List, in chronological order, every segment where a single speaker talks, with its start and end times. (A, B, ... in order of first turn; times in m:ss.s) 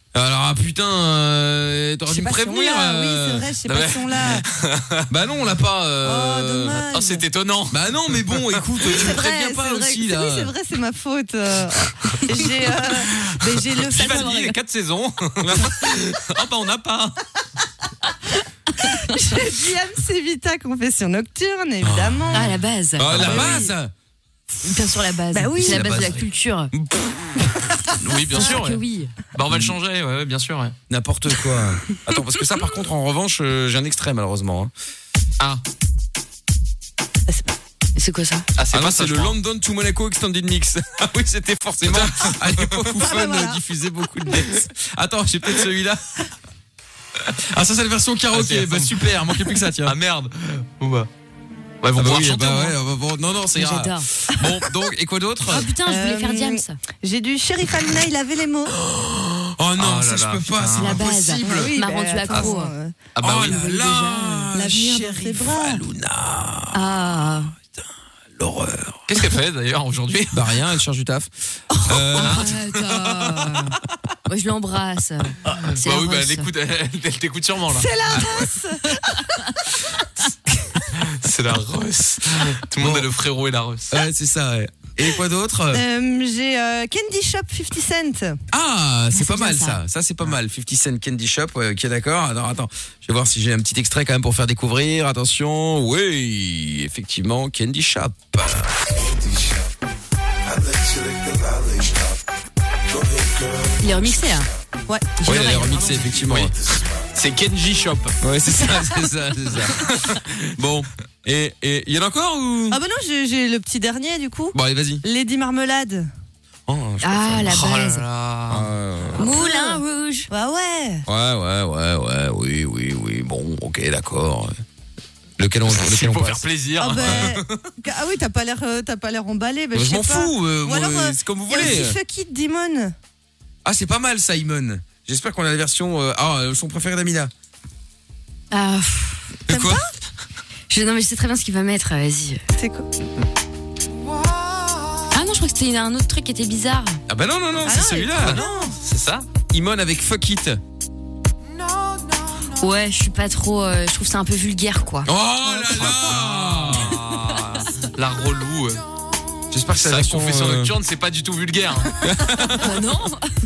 0:00.1-0:03.5 A
0:02.1-0:04.4 B
0:03.6-0:05.1 C
0:05.1-0:06.8 A
0:06.0-0:07.3 B
0:06.8-0:09.0 C
0:07.7-0:10.5 A
0:08.8-0:14.6 B
0:12.6-0:17.2 C
0:15.4-0:15.7 A
0:18.8-0:22.6 B
0:21.8-0:22.4 A
0:22.3-0:23.6 D
0:23.0-0:23.9 A
0:23.1-0:23.7 B
0:24.6-0:26.7 D
0:25.3-0:26.0 B
0:25.6-0:27.3 A
0:28.0-0:28.8 C
0:28.3-0:29.1 D
0:29.3-0:30.8 C
0:30.9-0:34.7 A
0:38.0-0:38.4 D
0:38.6-0:39.4 C
0:38.7-0:46.1 A
0:41.8-0:42.8 C
0:43.0-0:43.6 B
0:47.5-0:49.9 A
0:48.3-0:51.1 C
0:51.8-0:52.8 C
0:51.9-0:55.7 A
0:53.5-0:54.0 D
0:55.5-0:56.8 D
0:55.8-0:58.8 B
0:58.8-1:01.7 A
0:59.8-1:01.0 C
1:00.8-1:02.7 D
1:01.3-1:03.0 B
1:03.2-1:03.6 C
1:03.2-1:06.9 A
1:03.4-1:04.5 D
1:04.5-1:05.8 B
1:06.7-1:07.5 D
1:08.4-1:09.1 A
1:09.1-1:10.5 C
1:10.3-1:11.3 A
1:11.7-1:12.2 B
1:11.8-1:12.4 A
1:12.2-1:16.5 D
1:12.2-1:13.8 C
1:15.4-1:17.9 C
1:17.7-1:19.5 B
1:20.8-1:24.0 C
1:22.8-1:23.1 A
1:23.9-1:25.8 A
1:25.7-1:28.4 B
1:28.5-1:38.8 A
1:29.1-1:29.8 D
1:43.8-1:44.5 D
1:44.9-1:45.1 B
1:45.2-1:46.1 D
1:45.2-1:46.5 A
1:45.8-1:46.5 C
1:47.1-1:48.2 C
1:48.2-1:52.8 A
1:49.7-1:50.3 C
1:52.7-1:56.1 B
1:54.5-1:55.0 A
1:56.7-1:57.7 A
1:57.0-1:58.0 D
1:57.5-1:58.7 C
1:58.5-1:59.3 A
1:59.2-2:00.3 D
1:59.2-2:01.0 B
2:01.1-2:04.5 A
2:05.4-2:06.4 A
2:05.6-2:07.5 C
2:06.8-2:12.9 B
2:07.0-2:07.4 A
2:09.7-2:12.0 A
2:13.6-2:17.3 A
2:18.5-2:19.2 D
2:19.5-2:19.9 B
2:19.5-2:19.8 A
2:20.7-2:22.4 D
2:22.6-2:22.9 B
2:25.1-2:27.0 D
2:27.1-2:28.6 A
2:27.6-2:28.8 B
2:28.2-2:29.3 C
2:29.5-2:30.6 A
2:32.6-2:35.1 D
2:35.0-2:37.0 A
2:35.6-2:38.8 C
2:39.5-2:40.7 A
2:39.8-2:42.0 C
2:42.0-2:42.7 A
2:42.6-2:43.3 D